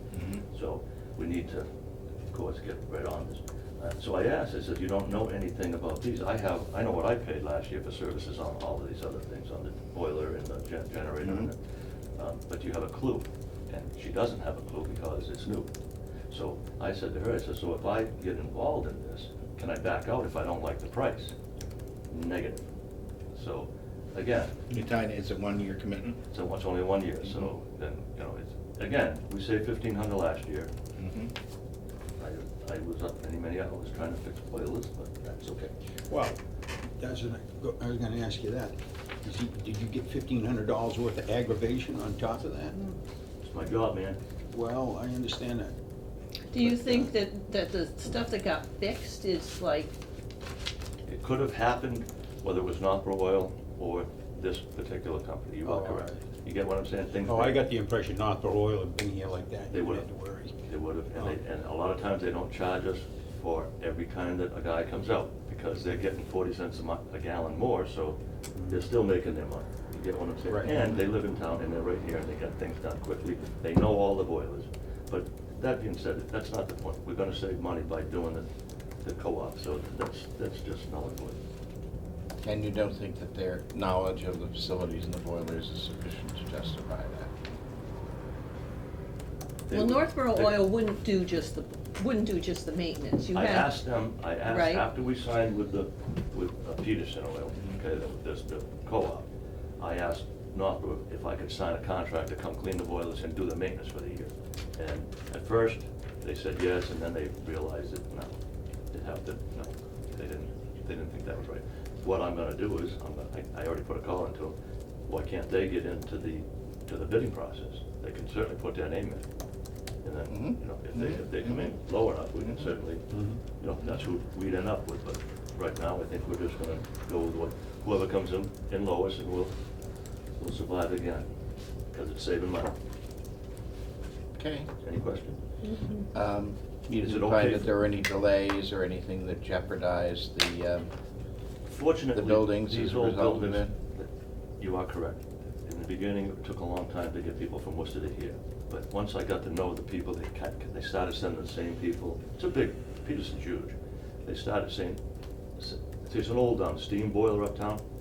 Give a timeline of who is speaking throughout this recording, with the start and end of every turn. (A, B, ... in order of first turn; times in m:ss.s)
0:00.1-0:00.4 A
0:00.5-0:01.7 B
0:02.3-0:11.6 B
0:11.2-0:11.5 A
0:12.2-0:15.7 B
0:16.3-0:21.3 B
0:22.1-0:22.6 B
0:23.3-0:24.6 B
0:24.7-0:26.2 A
0:26.3-0:30.7 B
0:31.0-0:31.3 A
0:32.2-0:35.7 B
0:36.1-0:36.4 C
0:37.0-0:42.9 C
0:43.4-0:44.2 B
0:44.5-0:45.7 C
0:46.5-0:49.9 D
0:46.5-0:47.1 C
0:51.0-0:57.6 B
0:55.6-0:56.2 C
0:57.2-1:00.6 C
0:59.7-1:00.1 B
1:00.6-1:18.5 B
1:08.5-1:08.9 C
1:10.4-1:11.0 C
1:19.0-1:21.4 B
1:22.4-1:27.3 A
1:29.7-1:30.6 B
1:29.7-1:33.7 D
1:33.3-1:48.4 B
1:34.4-1:34.8 D
1:48.9-1:59.2 B
2:00.0-2:09.5 B
2:00.3-2:01.8 A
2:02.4-2:02.7 A
2:03.1-2:03.4 C
2:10.4-2:11.3 B
2:11.9-2:12.8 B
2:14.4-2:14.7 A
2:14.8-2:15.4 B
2:15.6-2:16.0 D
2:16.1-2:20.9 A
2:17.0-2:17.7 B
2:21.7-2:24.1 B
2:22.1-2:23.7 A
2:24.6-2:35.0 B
2:35.6-2:37.8 B